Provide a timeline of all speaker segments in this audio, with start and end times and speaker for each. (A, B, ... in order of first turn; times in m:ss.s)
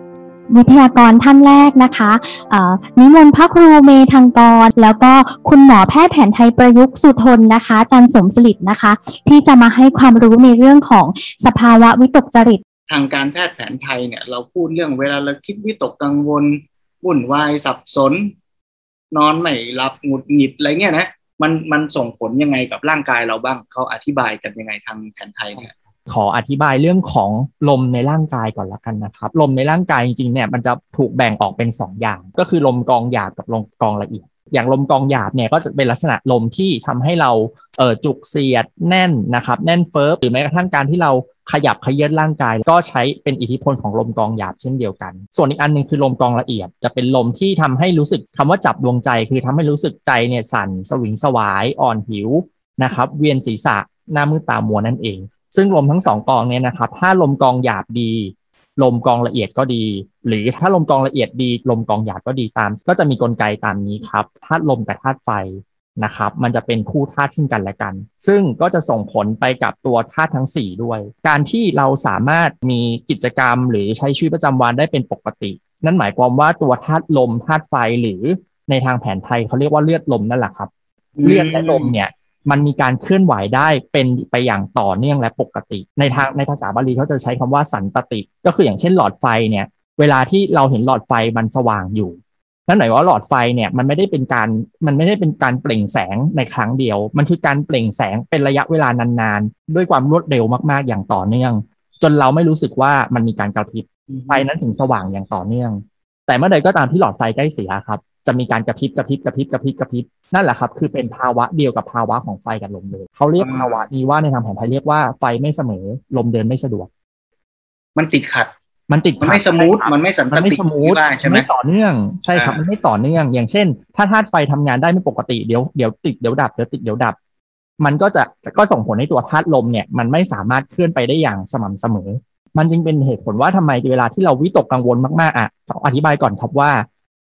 0:00.5-0:12.6 A
0:12.9-0:18.3 B
0:19.1-0:25.7 B
0:26.1-1:20.7 C
1:21.2-1:22.0 B
1:21.2-1:56.9 C
1:44.1-1:44.4 B
1:53.4-1:53.8 B
1:58.0-1:58.5 B
1:58.9-2:07.2 C
1:59.2-2:01.5 B
2:02.3-2:02.6 B
2:07.8-2:16.8 C